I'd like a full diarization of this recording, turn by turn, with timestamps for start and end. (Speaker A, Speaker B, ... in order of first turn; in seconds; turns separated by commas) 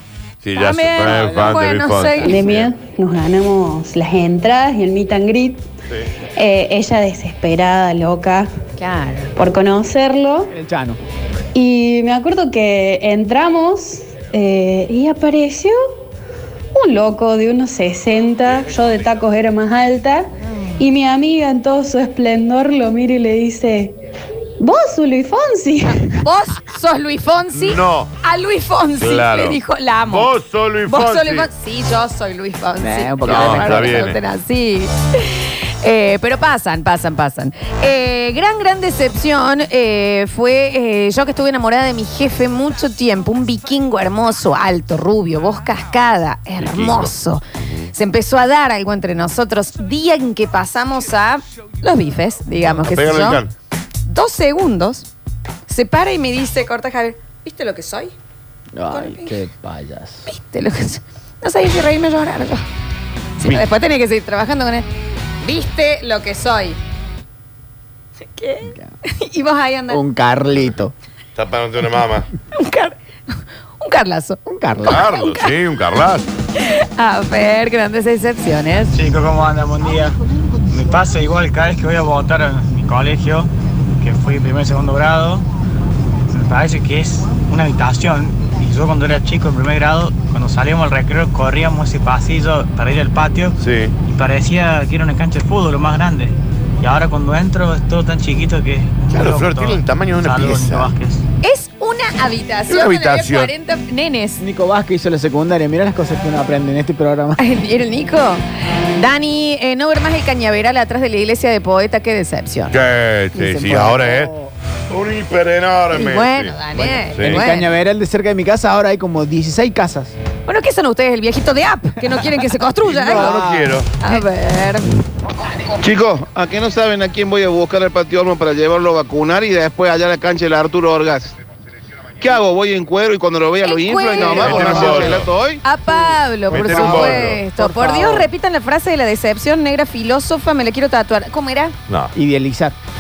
Speaker A: 0.4-2.7, Speaker B: 0.6-2.4, Speaker C: 2.2-5.6, Speaker C: 6.4-8.5, Speaker B: 8.8-9.3, Speaker C: 9.4-10.5, Speaker D: 10.5-11.0, Speaker C: 11.6-15.8, Speaker C: 16.8-23.9, Speaker A: 18.2-19.2, Speaker C: 24.6-26.2, Speaker B: 26.2-30.3, Speaker A: 27.5-28.2, Speaker A: 29.0-31.5, Speaker B: 30.9-47.4, Speaker D: 32.8-33.9, Speaker A: 33.2-34.2, Speaker A: 46.6-47.9, Speaker B: 47.9-53.4, Speaker A: 52.8-53.5, Speaker B: 54.1-55.1, Speaker B: 55.7-58.1, Speaker D: 58.7-60.2, Speaker B: 58.9-59.4, Speaker B: 60.3-62.6, Speaker B: 63.4-64.9, Speaker A: 63.4-63.7, Speaker B: 65.4-66.8, Speaker B: 68.3-70.0, Speaker D: 69.9-70.9, Speaker A: 71.4-72.3, Speaker B: 72.5-75.5, Speaker D: 74.5-75.1, Speaker A: 74.8-76.3, Speaker B: 76.6-79.1, Speaker E: 79.0-80.2, Speaker E: 80.7-85.5, Speaker E: 86.3-101.2, Speaker A: 93.6-94.0, Speaker A: 99.1-101.0, Speaker B: 101.4-104.4, Speaker A: 102.7-103.5, Speaker D: 104.4-107.4, Speaker B: 107.4-112.8, Speaker A: 112.7-114.3, Speaker B: 113.3-114.2, Speaker D: 113.7-114.5, Speaker A: 114.9-117.5, Speaker B: 115.9-117.7, Speaker D: 117.2-120.2, Speaker B: 120.5-123.4, Speaker A: 122.8-124.0, Speaker D: 122.9-124.2, Speaker B: 124.0-124.8, Speaker F: 125.8-131.3, Speaker F: 132.2-135.6, Speaker B: 133.6-141.8, Speaker A: 134.2-135.3, Speaker A: 136.5-137.4, Speaker D: 136.6-138.3, Speaker A: 141.9-142.2, Speaker D: 142.2-142.8